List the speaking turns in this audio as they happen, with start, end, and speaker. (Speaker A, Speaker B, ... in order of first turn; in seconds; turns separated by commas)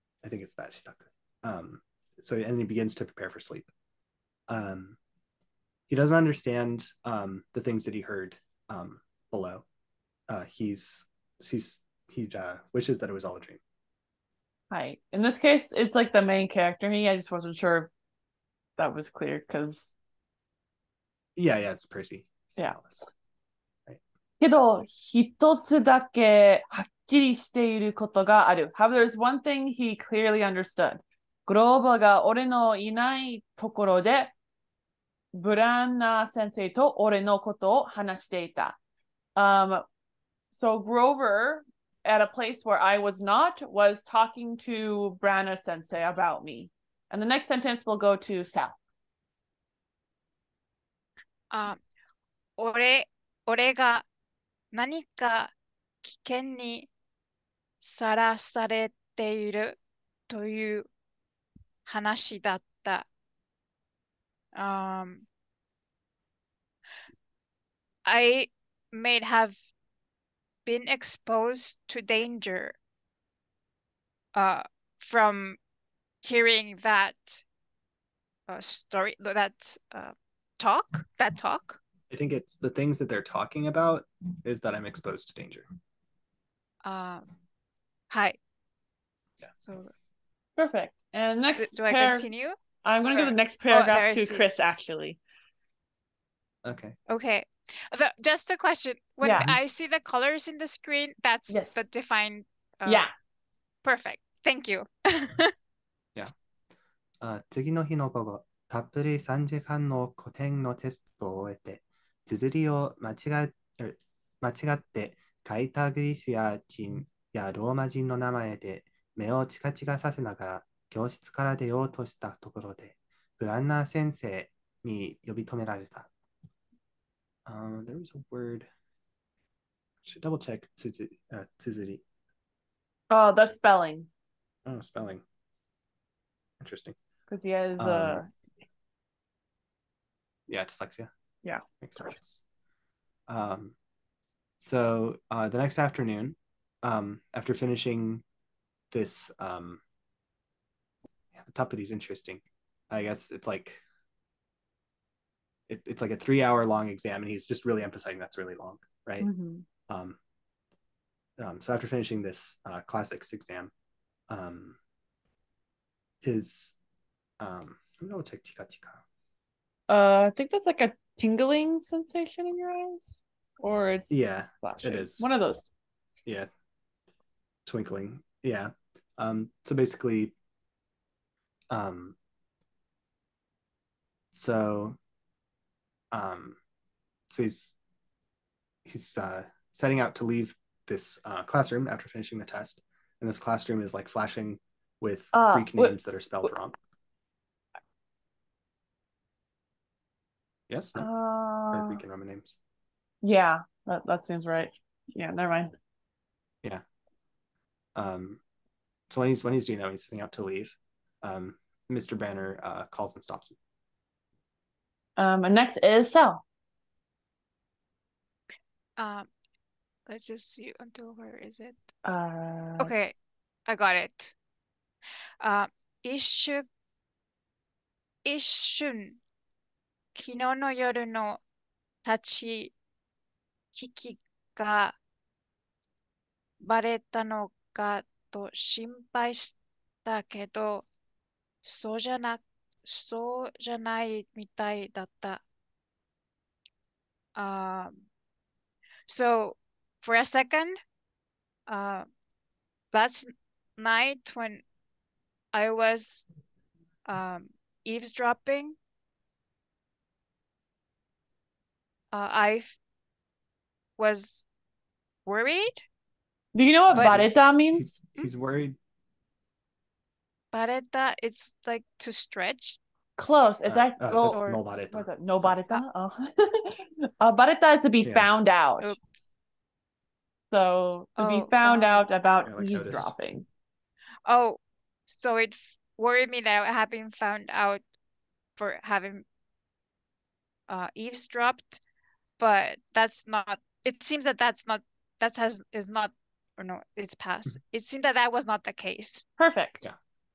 Speaker A: 0.2-3.7, Speaker A: 4.5-5.0, Speaker A: 5.9-9.7, Speaker A: 10.3-13.6, Speaker B: 14.7-17.9, Speaker B: 18.8-19.9, Speaker A: 21.4-23.0, Speaker B: 24.4-34.3, Speaker B: 35.3-38.8, Speaker B: 39.4-39.8, Speaker B: 40.5-48.8, Speaker C: 51.5-51.8, Speaker C: 52.6-54.0, Speaker C: 54.7-55.5, Speaker C: 56.0-56.9, Speaker C: 57.8-59.8, Speaker C: 60.3-60.9, Speaker C: 61.9-63.1, Speaker C: 64.6-65.3, Speaker C: 68.0-69.6, Speaker C: 70.7-72.8, Speaker C: 74.3-75.6, Speaker C: 76.2-77.4, Speaker C: 78.5-81.8, Speaker A: 82.1-85.7, Speaker C: 86.8-87.3, Speaker C: 88.1-88.4, Speaker C: 89.4-89.9, Speaker B: 90.6-92.3, Speaker C: 91.5-92.6, Speaker B: 92.8-95.2, Speaker C: 93.1-94.5, Speaker A: 96.6-97.0, Speaker C: 97.1-103.1, Speaker B: 99.2-99.5, Speaker B: 101.5-101.9, Speaker C: 103.8-105.5, Speaker A: 107.2-126.1, Speaker A: 127.5-128.7, Speaker A: 130.0-132.0, Speaker B: 133.1-134.1, Speaker A: 134.7-135.2, Speaker A: 136.6-137.0, Speaker B: 137.3-138.3, Speaker A: 137.8-138.2, Speaker A: 140.5-141.1, Speaker B: 141.4-142.2, Speaker A: 141.8-142.4, Speaker A: 143.3-143.8, Speaker A: 144.6-148.2, Speaker A: 148.9-149.8, Speaker A: 151.3-153.8, Speaker A: 155.7-159.3, Speaker B: 159.2-159.7, Speaker A: 159.9-160.2, Speaker A: 161.4-163.7, Speaker A: 164.3-164.8, Speaker A: 166.2-166.8, Speaker A: 167.4-169.0, Speaker B: 169.9-175.7, Speaker A: 174.1-175.3, Speaker A: 177.7-180.3, Speaker A: 181.7-182.2, Speaker A: 184.3-185.0, Speaker A: 186.1-186.6, Speaker A: 187.3-187.8, Speaker A: 188.8-196.8, Speaker B: 195.3-195.9, Speaker A: 200.7-201.1, Speaker B: 201.0-202.0, Speaker A: 201.7-202.6, Speaker B: 203.2-205.7, Speaker A: 207.9-208.4, Speaker A: 209.1-213.6, Speaker B: 215.2-216.4, Speaker C: 219.0-219.3, Speaker C: 220.1-221.8, Speaker B: 222.1-223.1, Speaker C: 222.8-223.1, Speaker C: 223.7-224.3, Speaker C: 225.4-226.7, Speaker C: 228.2-229.2, Speaker C: 230.2-231.4, Speaker C: 232.0-232.7, Speaker C: 233.7-235.0, Speaker C: 236.6-240.9, Speaker C: 241.6-245.4, Speaker C: 247.4-248.1, Speaker C: 249.1-250.8, Speaker C: 251.7-252.1, Speaker C: 252.9-254.6, Speaker C: 255.5-256.2, Speaker C: 257.1-258.8, Speaker C: 262.1-262.8, Speaker C: 264.0-264.5, Speaker C: 265.3-265.8, Speaker B: 266.5-267.9, Speaker A: 266.9-268.8, Speaker C: 270.5-272.8, Speaker B: 273.2-274.4, Speaker A: 273.6-275.6, Speaker C: 274.3-274.6, Speaker B: 274.9-279.0, Speaker A: 278.0-278.3, Speaker B: 280.5-283.5, Speaker C: 281.2-282.6, Speaker A: 282.4-283.1, Speaker C: 284.3-287.8, Speaker C: 288.6-289.2, Speaker C: 290.7-291.8, Speaker C: 292.4-299.2, Speaker B: 299.4-299.9